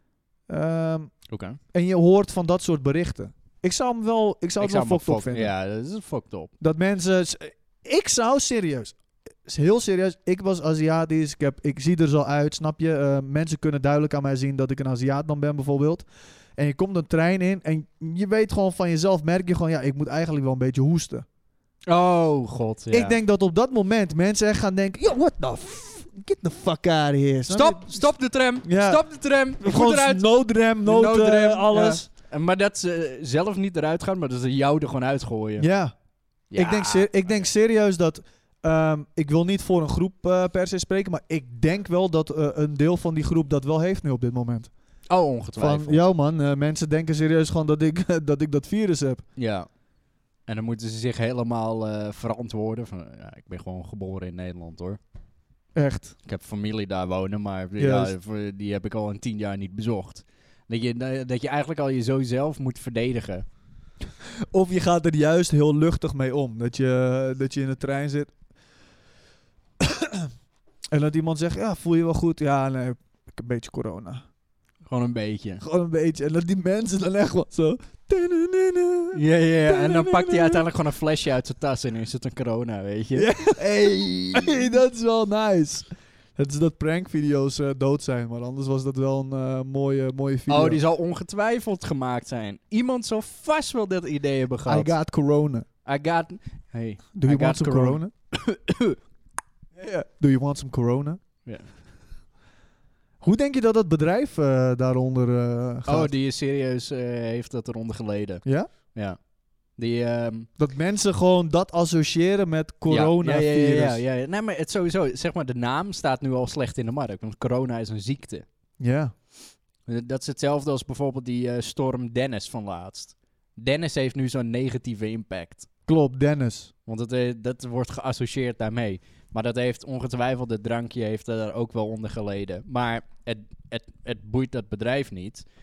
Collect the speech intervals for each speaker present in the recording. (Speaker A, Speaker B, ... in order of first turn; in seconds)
Speaker A: 0.5-1.1, 1.7-5.5, 6.6-21.2, 22.9-28.1, 28.6-32.1, 35.6-35.9, 36.5-44.7, 45.6-49.2, 55.8-56.1, 57.8-58.1, 64.5-68.3, 69.8-70.3, 70.9-74.2, 75.6-80.6, 83.2-90.8, 94.7-95.7, 97.2-98.1, 99.8-101.2, 103.2-106.1, 108.5-108.7, 110.6-114.0, 118.8-119.1, 125.9-126.7
Speaker B: 1.3-1.6, 4.6-6.5, 21.9-23.2, 27.5-35.7, 36.5-37.5, 45.1-46.0, 49.4-49.7, 50.5-55.0, 56.2-63.5, 74.9-75.6, 79.1-84.5, 90.5-94.9, 95.8-99.0, 105.9-110.5, 112.9-118.5, 119.9-125.7, 126.9-135.5